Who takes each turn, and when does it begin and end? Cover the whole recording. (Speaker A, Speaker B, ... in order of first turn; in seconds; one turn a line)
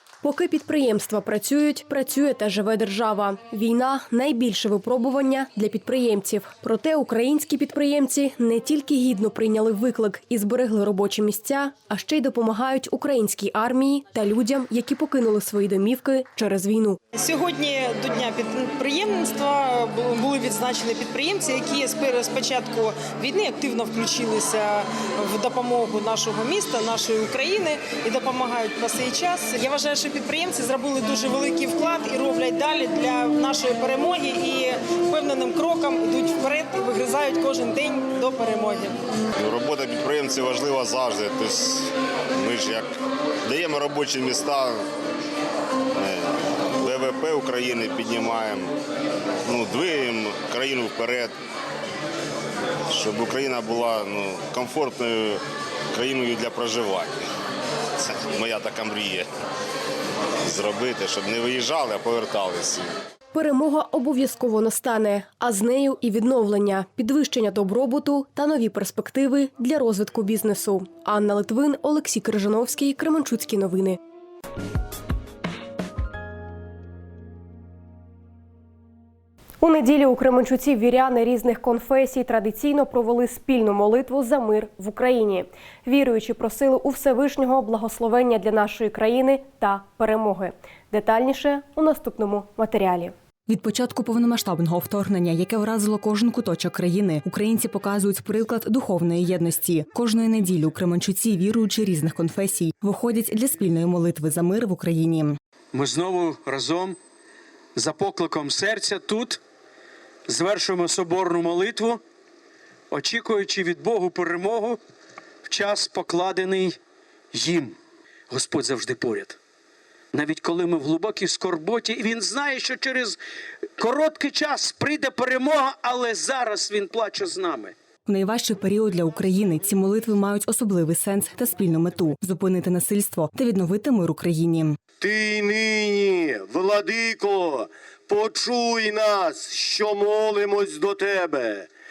Speaker A: 0.2-17.0
Speaker B: 17.1-39.0
Speaker C: 39.4-42.9
Speaker C: 43.5-44.8
Speaker C: 46.0-48.7
Speaker C: 49.5-51.3
Speaker C: 52.9-55.4
Speaker C: 55.9-57.3
Speaker C: 58.0-59.3
Speaker C: 60.4-62.9
Speaker A: 63.3-74.0
Speaker A: 79.6-93.1
Speaker D: 93.5-105.4
Speaker E: 105.7-107.0
Speaker E: 107.8-109.4
Speaker E: 110.3-112.0
Speaker E: 112.9-114.8
Speaker E: 115.5-116.8
Speaker E: 117.3-117.8
Speaker E: 118.3-119.4
Speaker E: 120.1-123.2
Speaker E: 123.8-127.8
Speaker D: 128.1-134.8
Speaker F: 135.0-141.7